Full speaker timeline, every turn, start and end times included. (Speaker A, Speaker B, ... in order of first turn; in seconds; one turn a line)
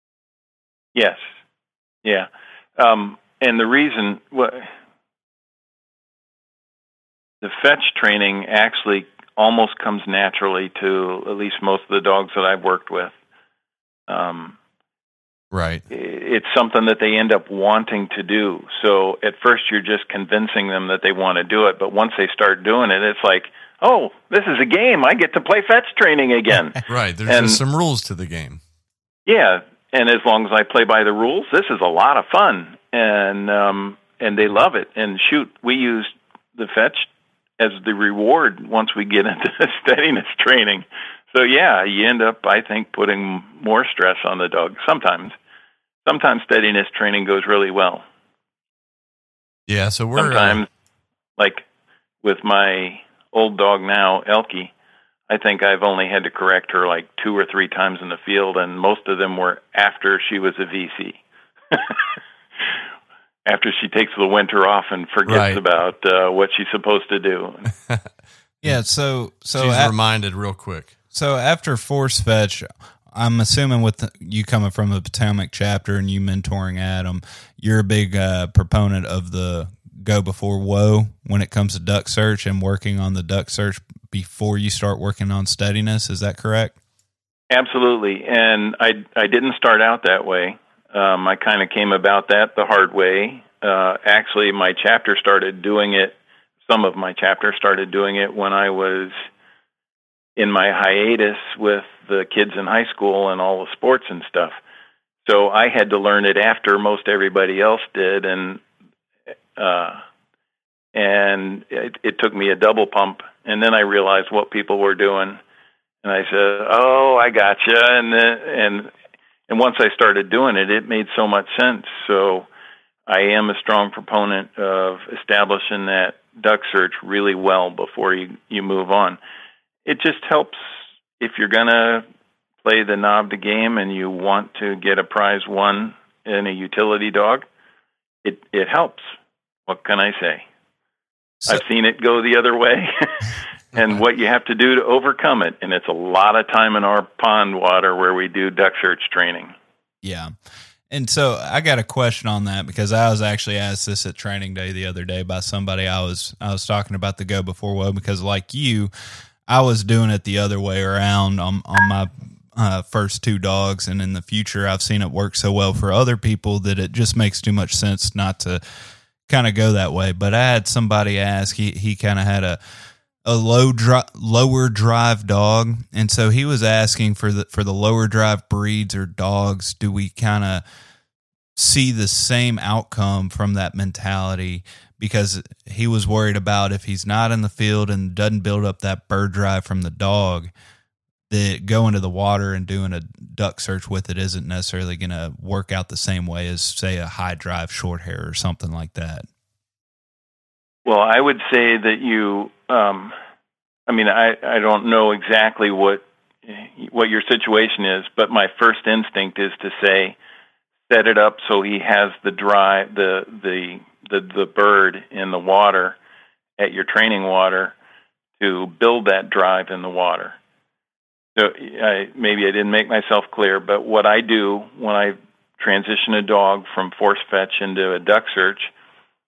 Speaker A: 0.9-1.3
Speaker A: 2.0-4.7
Speaker A: 7.4-13.1
Speaker A: 14.1-14.6
Speaker B: 15.5-15.8
Speaker A: 15.9-27.6
Speaker B: 26.9-28.6
Speaker A: 29.3-45.3
Speaker A: 46.0-48.0
Speaker B: 49.7-50.6
Speaker A: 50.1-50.7
Speaker A: 51.4-51.6
Speaker A: 52.2-54.7
Speaker A: 55.3-62.2
Speaker A: 63.5-67.7
Speaker B: 65.3-65.6
Speaker C: 68.6-69.9
Speaker B: 69.5-70.9
Speaker C: 71.1-86.7
Speaker A: 87.5-99.1
Speaker A: 100.4-104.6
Speaker A: 105.2-108.6
Speaker A: 109.5-110.0
Speaker A: 110.9-115.4
Speaker A: 116.0-118.9
Speaker A: 119.5-122.5
Speaker A: 123.1-129.2
Speaker A: 129.8-130.7
Speaker A: 131.2-132.1
Speaker A: 132.6-137.4
Speaker A: 138.2-139.1
Speaker A: 139.7-140.4
Speaker A: 141.5-149.6
Speaker C: 150.0-150.3
Speaker C: 150.9-158.9
Speaker C: 159.5-168.6
Speaker C: 169.3-172.6
Speaker C: 173.2-180.6
Speaker C: 181.6-190.5
Speaker C: 191.3-199.3
Speaker A: 200.8-203.1
Speaker A: 203.9-210.2
Speaker A: 210.9-216.0
Speaker A: 216.6-217.8
Speaker A: 218.4-220.4
Speaker A: 221.3-228.7